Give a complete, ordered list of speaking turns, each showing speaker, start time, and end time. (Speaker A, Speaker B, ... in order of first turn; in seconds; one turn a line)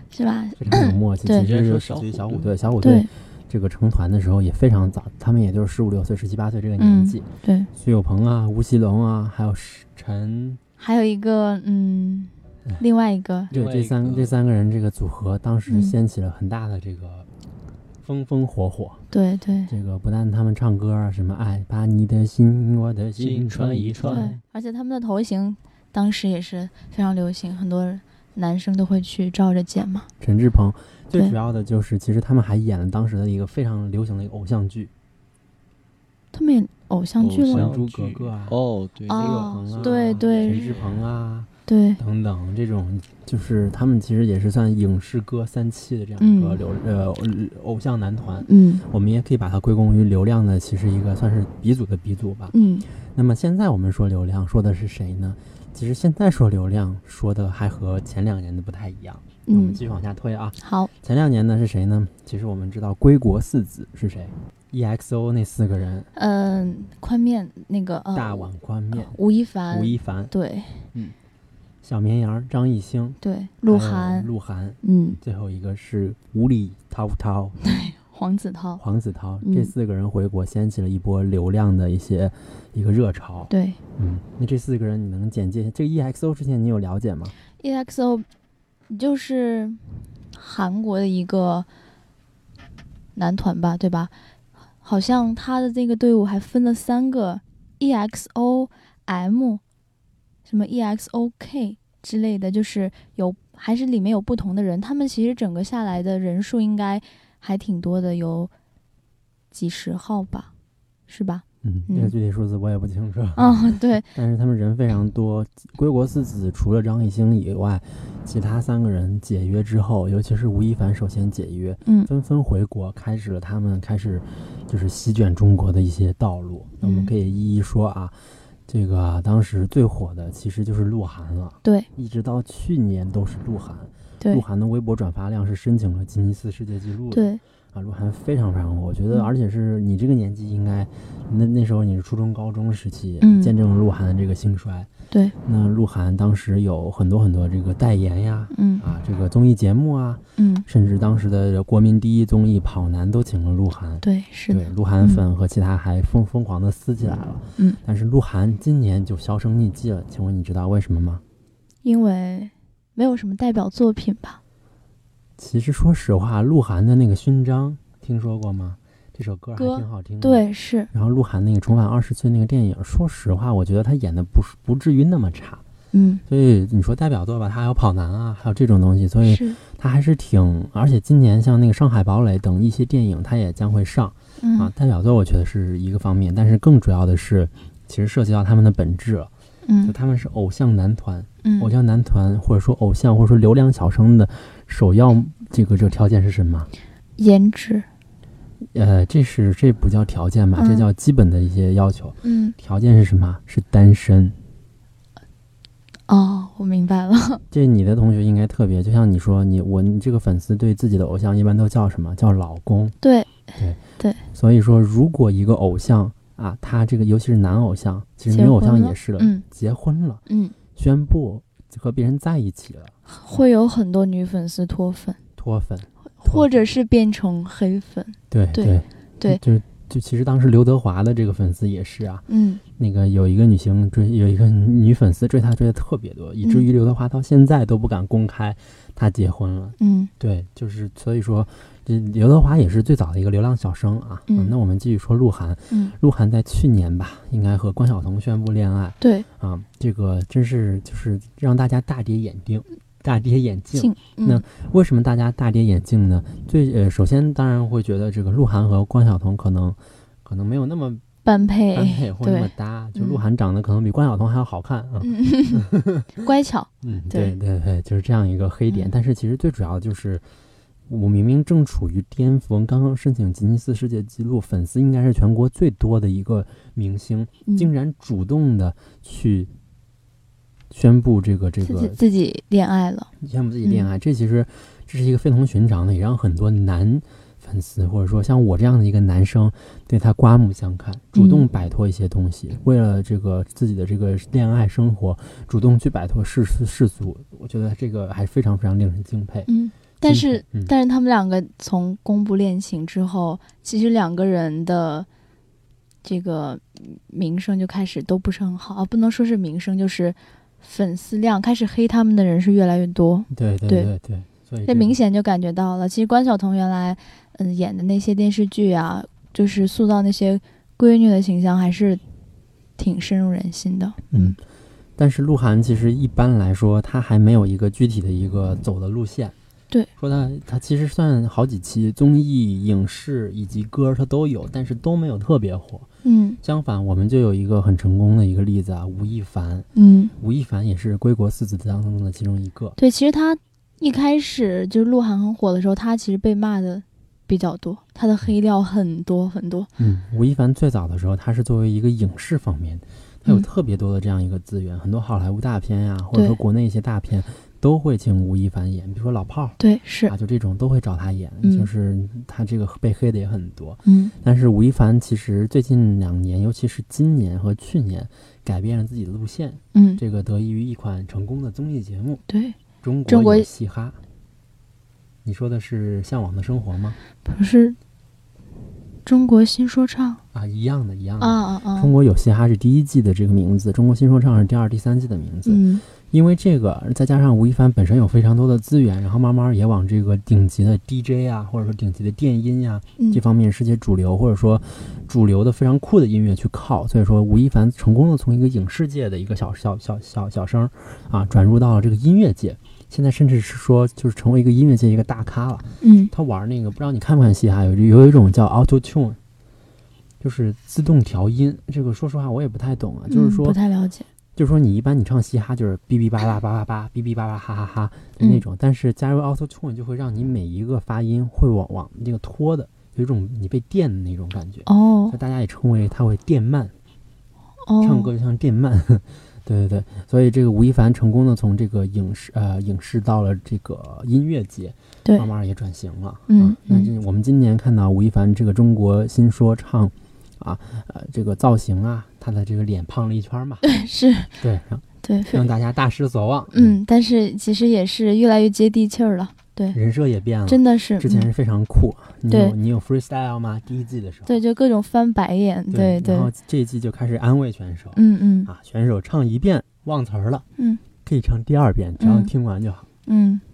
Speaker A: 0.1-1.5
Speaker B: 0.6-10.6
Speaker C: 1.4-2.6
Speaker A: 2.8-3.1
Speaker A: 6.8-7.7
Speaker A: 10.8-13.5
Speaker B: 13.5-17.3
Speaker C: 13.5-14.3
Speaker A: 15.7-15.9
Speaker B: 18.0-19.1
Speaker A: 19.1-19.7
Speaker B: 19.7-24.4
Speaker C: 23.2-24.3
Speaker A: 24.1-30.1
Speaker B: 30.2-34.9
Speaker A: 36.3-37.7
Speaker C: 37.2-41.0
Speaker B: 37.5-38.6
Speaker A: 39.1-40.8
Speaker B: 39.2-66.1
Speaker A: 41.7-42.0
Speaker A: 46.2-46.6
Speaker A: 48.5-48.8
Speaker A: 52.5-52.9
Speaker A: 59.5-59.8
Speaker A: 60.6-60.9
Speaker A: 66.2-70.9
Speaker B: 68.1-70.3
Speaker B: 71.8-77.6
Speaker A: 73.2-74.3
Speaker A: 74.8-75.2
Speaker A: 77.6-78.8
Speaker B: 78.8-87.3
Speaker A: 79.4-79.7
Speaker A: 83.5-83.8
Speaker A: 87.6-88.3
Speaker A: 88.9-91.7
Speaker A: 93.2-94.1
Speaker A: 94.8-99.6
Speaker A: 100.5-108.5
Speaker A: 109.5-110.5
Speaker A: 111.1-112.1
Speaker B: 111.6-128.2
Speaker A: 113.4-114.1
Speaker A: 121.8-122.1
Speaker A: 126.8-127.1
Speaker B: 128.7-144.9
Speaker A: 137.1-137.4
Speaker A: 143.2-143.5
Speaker B: 145.4-161.2
Speaker A: 148.5-148.8
Speaker A: 150.4-150.7
Speaker A: 154.0-155.2
Speaker A: 161.8-164.4
Speaker B: 165.4-175.6
Speaker A: 169.6-170.9
Speaker A: 175.9-176.2
Speaker B: 176.3-189.3
Speaker A: 179.2-179.6
Speaker A: 184.4-184.7
Speaker A: 189.7-189.9
Speaker B: 189.8-196.7
Speaker A: 191.4-191.7
Speaker A: 197.2-197.9
Speaker B: 198.7-204.4
Speaker A: 200.6-200.8
Speaker A: 202.2-202.6
Speaker A: 206.1-207.4
Speaker B: 207.5-213.0
Speaker A: 213.0-213.4
Speaker B: 214.3-220.2
Speaker A: 218.3-219.4
Speaker A: 220.3-220.6
Speaker B: 220.8-222.9
Speaker A: 223.1-225.2
Speaker B: 225.4-226.6
Speaker A: 226.2-229.4
Speaker B: 228.3-261.0
Speaker A: 232.3-232.6
Speaker A: 239.8-240.1
Speaker A: 244.3-244.5
Speaker A: 245.7-245.9
Speaker A: 249.0-249.3
Speaker A: 253.8-254.4
Speaker A: 261.2-263.2
Speaker B: 261.7-266.1
Speaker A: 265.0-267.3
Speaker B: 266.8-270.2
Speaker B: 270.9-279.5
Speaker B: 280.7-282.0
Speaker A: 281.6-283.1
Speaker B: 283.2-299.5
Speaker A: 283.6-283.9
Speaker A: 291.1-291.5
Speaker A: 299.5-305.1
Speaker B: 300.0-300.7
Speaker A: 306.0-313.9
Speaker B: 313.3-315.0
Speaker A: 314.7-322.0
Speaker A: 322.8-324.4
Speaker B: 324.1-324.4
Speaker B: 325.0-329.4
Speaker B: 330.0-335.9
Speaker A: 336.0-336.4
Speaker B: 336.4-342.8
Speaker A: 339.8-340.1
Speaker A: 342.8-349.7
Speaker B: 349.8-372.2
Speaker A: 359.6-360.1
Speaker A: 361.4-361.7
Speaker A: 363.9-364.1
Speaker A: 369.7-370.0
Speaker A: 372.3-373.5
Speaker B: 372.8-374.0
Speaker B: 375.2-377.0
Speaker A: 377.2-377.8
Speaker A: 379.1-380.2
Speaker B: 380.3-409.2
Speaker A: 381.2-381.9
Speaker A: 385.5-385.8
Speaker A: 405.8-406.1
Speaker B: 410.2-413.6
Speaker A: 413.1-414.1
Speaker B: 414.4-426.7
Speaker A: 424.7-425.2
Speaker A: 427.7-428.1
Speaker B: 427.8-443.6
Speaker A: 436.3-436.9
Speaker A: 443.6-444.3
Speaker B: 444.4-446.8
Speaker A: 445.0-445.5
Speaker A: 446.5-449.8
Speaker B: 449.7-454.4
Speaker A: 450.5-451.3
Speaker A: 452.3-452.6
Speaker A: 454.3-456.3
Speaker B: 455.7-460.5
Speaker A: 457.9-458.5
Speaker B: 461.0-462.9
Speaker A: 462.0-462.3
Speaker A: 463.1-463.4